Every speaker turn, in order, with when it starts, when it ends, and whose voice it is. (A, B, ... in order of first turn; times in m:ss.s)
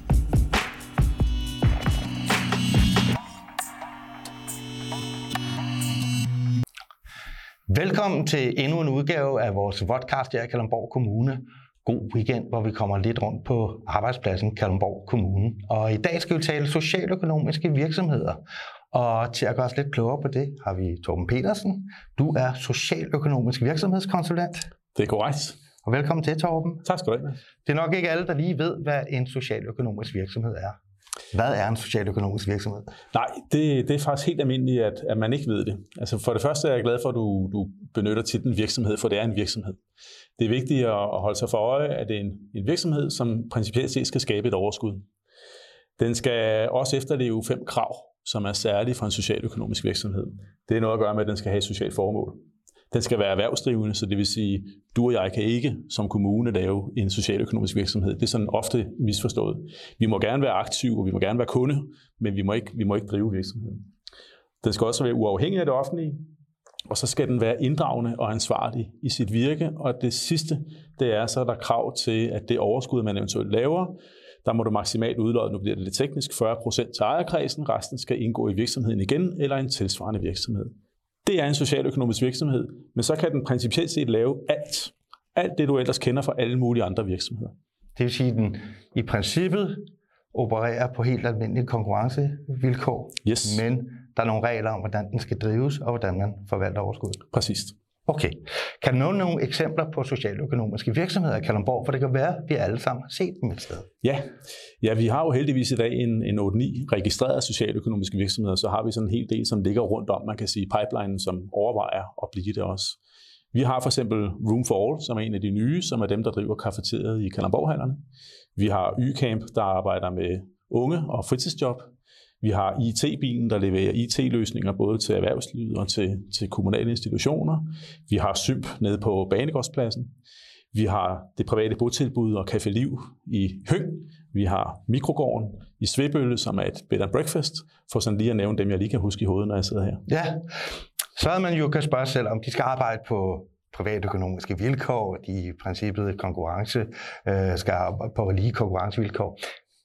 0:07.7-0:18.4 A
0:18.9-0:24.7 A
0:25.0-0:25.6 B
0:25.8-0:26.8 A
0:26.8-0:27.4 B
0:27.6-0:30.7 A
0:31.3-0:32.9 A
0:33.1-0:39.8 B
0:40.4-0:45.0 B
0:46.0-0:52.4 B
0:52.9-1:03.9 B
1:04.6-1:06.2 B
1:06.9-1:20.7 B
1:21.2-1:27.5 B
1:28.0-1:29.8 A
1:30.3-1:37.2 A
1:33.2-1:33.6 B
1:37.3-1:37.8 B
1:38.1-1:43.9 A
1:44.0-1:44.3 B
1:44.8-1:53.0 B
1:53.5-1:58.0 B
1:58.6-2:01.9 B
2:02.4-2:10.1 B
2:10.7-2:20.0 B
2:20.1-2:20.5 A
2:21.1-2:29.4 A